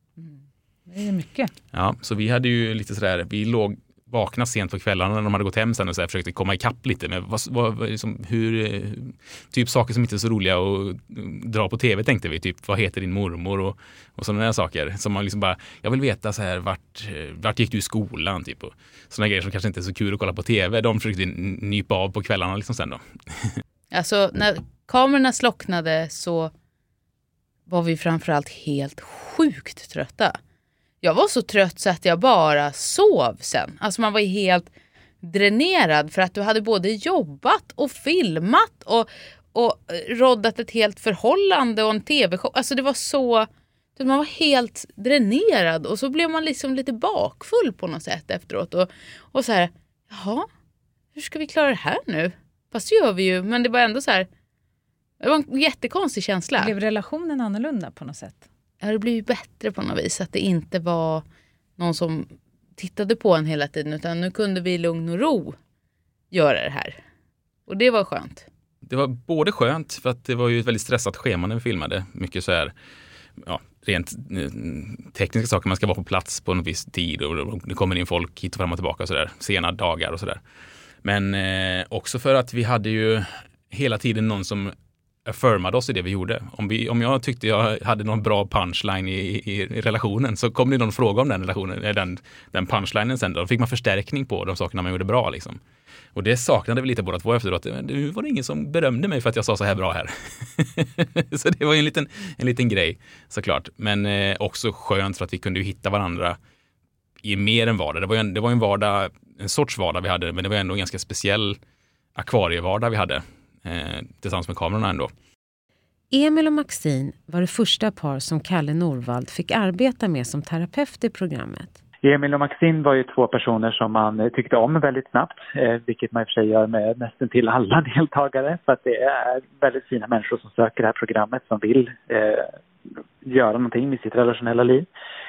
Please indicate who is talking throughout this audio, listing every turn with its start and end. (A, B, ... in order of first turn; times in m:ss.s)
0:00.2-0:01.5 A
0:01.7-0:23.6 B
0:23.9-0:26.5 C
0:27.7-0:30.4 C
0:31.0-0:34.7 C
0:35.2-0:50.5 C
0:51.1-0:54.3 C
0:55.2-0:56.7 C
0:56.6-0:58.4 A
0:58.8-1:01.2 C
1:01.8-1:05.6 C
1:06.3-1:07.0 C
1:07.7-1:08.4 C
1:08.8-1:12.7 B
1:13.4-1:20.4 B
1:21.0-1:35.6 B
1:36.1-1:46.4 B
1:47.2-1:51.6 B
1:52.1-1:55.1 B
1:56.1-2:01.8 D
2:02.0-2:12.5 E
2:13.2-2:14.9 E